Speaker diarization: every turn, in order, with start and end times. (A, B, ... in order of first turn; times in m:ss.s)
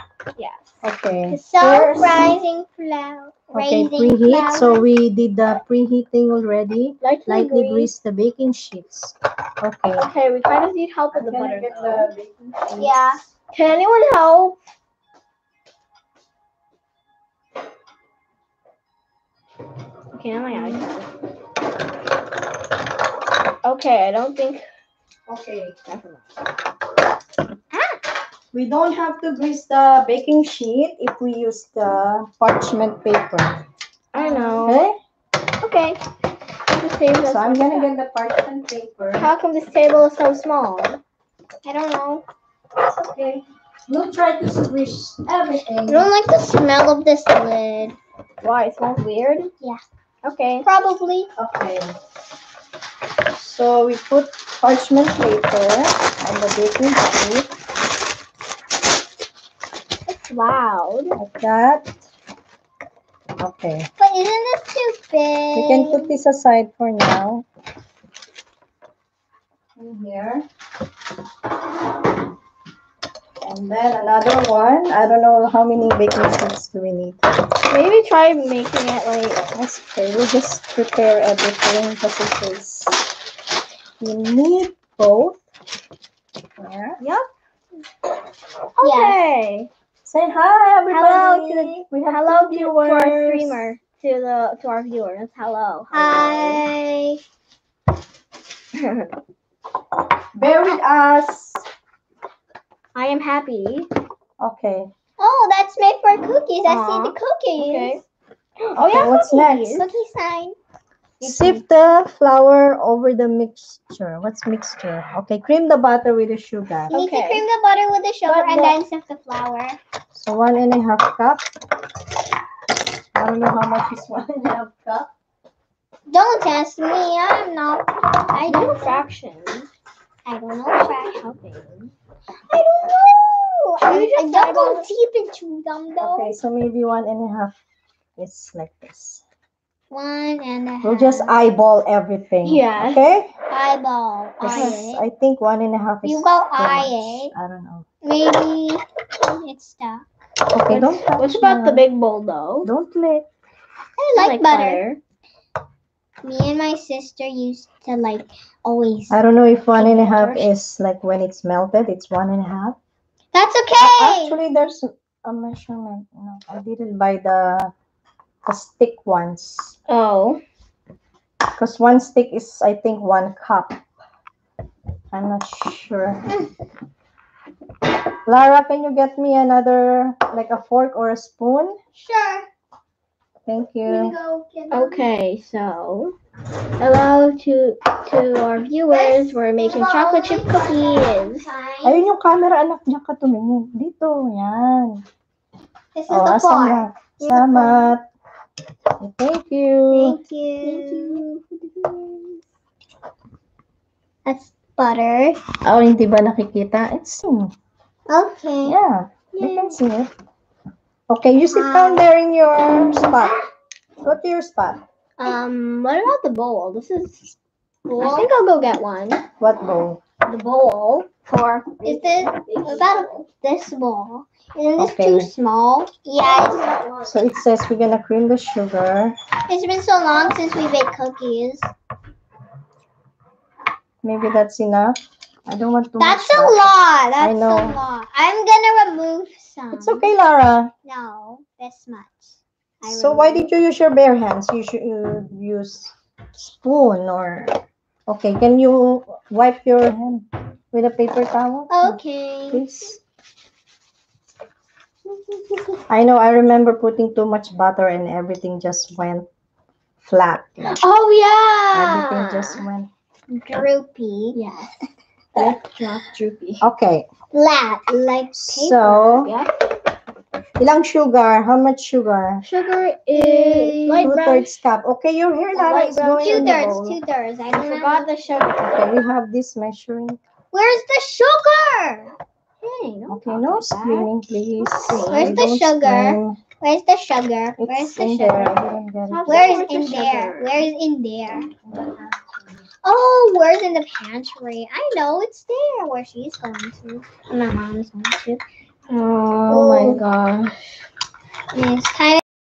0:00.4-0:00.7 A
0:00.8-0:02.1 B
0:01.3-0:04.8 C
0:01.6-0:02.3 A
0:03.5-0:10.1 B
0:07.0-0:07.9 A
0:10.0-0:12.1 A
0:11.1-0:12.9 B
0:12.8-0:13.2 C
0:13.5-0:14.6 A
0:20.1-0:21.1 A
0:20.5-0:20.9 C
0:23.6-0:24.6 A
0:25.3-0:25.8 B
0:25.9-0:26.2 A
0:27.7-0:28.0 C
0:28.5-0:33.6 B
0:34.1-0:34.8 A
0:34.1-0:34.8 C
0:34.6-0:35.0 B
0:35.6-0:36.0 A
0:36.7-0:37.9 A
0:37.2-0:39.3 B
0:39.2-0:41.0 A
0:41.6-0:42.2 C
0:42.8-0:46.1 B
0:45.9-0:48.0 C
0:48.4-0:49.5 A
0:50.2-0:50.7 A
0:50.6-0:51.3 C
0:51.4-0:51.9 B
0:53.3-0:57.5 B
1:00.1-1:01.2 A
1:01.2-1:01.9 B
1:03.4-1:03.9 B
1:04.0-1:06.1 C
1:05.5-1:07.4 B
1:09.8-1:10.4 B
1:13.4-1:17.3 B
1:17.7-1:19.4 A
1:19.5-1:23.1 B
1:24.0-1:25.4 B
1:26.6-1:27.0 B
1:27.0-1:27.2 A
1:28.8-1:29.7 A
1:28.8-1:29.2 C
1:30.0-1:33.7 B
1:30.9-1:36.6 A
1:35.9-1:37.2 C
1:38.7-1:39.1 A
1:40.4-1:41.6 B
1:42.9-1:43.9 A
1:44.4-1:44.9 B
1:45.2-1:48.0 C
1:46.7-1:48.0 A
1:48.6-1:49.7 A
1:48.8-1:49.9 B
1:49.1-1:50.6 C
1:51.2-1:51.6 C
1:51.2-1:56.9 B
1:56.9-1:57.4 A
1:56.9-1:59.8 C
1:58.3-1:58.8 A
2:00.1-2:01.4 B
2:03.2-2:05.1 B
2:06.1-2:09.0 C
2:08.5-2:09.7 A
2:10.3-2:11.2 C
2:10.7-2:11.9 A
2:12.5-2:16.4 C
2:13.8-2:14.9 A
2:16.0-2:17.6 B
2:18.2-2:19.2 B
2:19.9-2:21.3 C
2:20.8-2:23.3 B
2:22.4-2:23.0 A
2:23.5-2:25.0 C
2:24.4-2:27.9 B
2:24.5-2:24.8 A
2:26.0-2:27.3 C
2:28.0-2:30.1 C
2:30.5-2:31.8 B
2:30.7-2:32.7 A
2:32.6-2:33.3 B
2:34.0-2:34.8 C
2:34.2-2:35.0 A
2:36.2-2:39.2 C
2:39.1-2:42.8 B
2:39.8-2:40.5 A
2:43.3-2:44.4 C
2:43.8-2:47.7 B
2:48.4-2:49.8 B
2:49.9-2:50.4 A
2:51.6-2:53.8 B
2:55.1-2:56.3 B
2:58.3-3:01.8 B
3:01.9-3:02.5 C
3:03.5-3:04.1 B
3:03.8-3:05.1 C
3:04.7-3:06.2 A
3:06.8-3:11.5 A
3:08.9-3:12.1 C
3:11.8-3:15.0 B
3:16.0-3:17.9 C
3:16.1-3:18.0 B
3:19.0-3:20.2 B
3:19.9-3:21.2 C
3:20.6-3:22.4 A
3:24.2-3:25.4 C
3:25.6-3:27.5 B
3:28.1-3:28.8 C
3:28.6-3:30.1 B
3:29.4-3:29.7 A
3:31.1-3:33.4 B
3:31.5-3:32.1 C
3:33.0-3:33.4 C
3:34.0-3:34.8 B
3:35.2-3:37.4 A
3:37.9-3:38.3 C
3:37.9-3:39.2 A
3:39.4-3:40.0 B
3:40.2-3:43.2 A
3:41.8-3:46.6 C
3:44.8-3:45.3 B
3:46.2-3:47.4 A
3:47.0-3:49.2 B
3:49.5-3:51.7 C
3:54.0-3:57.8 B
3:56.0-4:00.1 C
3:59.8-4:00.7 B
4:00.8-4:03.5 C
4:02.8-4:13.0 B
4:11.7-4:12.6 C
4:15.9-4:19.3 B
4:20.1-4:20.8 B
4:20.8-4:22.7 A
4:21.7-4:22.9 B
4:23.3-4:24.4 C
4:24.3-4:26.6 A
4:25.4-4:25.9 B
4:26.6-4:27.1 B
4:27.3-4:29.3 C
4:28.3-4:29.3 B
4:29.2-4:29.5 A
4:30.6-4:32.4 B
4:32.4-4:34.6 A
4:33.1-4:34.1 C
4:34.0-4:37.0 B
4:35.5-4:36.8 A
4:36.2-4:38.1 C
4:37.5-4:38.9 A
4:38.7-4:40.2 B
4:40.5-4:42.1 C
4:42.6-4:45.5 A
4:43.1-4:46.4 B
4:45.0-4:48.6 C
4:47.6-4:49.6 B
4:49.1-4:50.6 A
4:49.3-4:51.5 C
4:51.6-4:52.3 B
4:52.8-4:58.4 C
4:58.9-5:00.8 A
4:59.5-5:00.0 C
5:01.5-5:02.2 C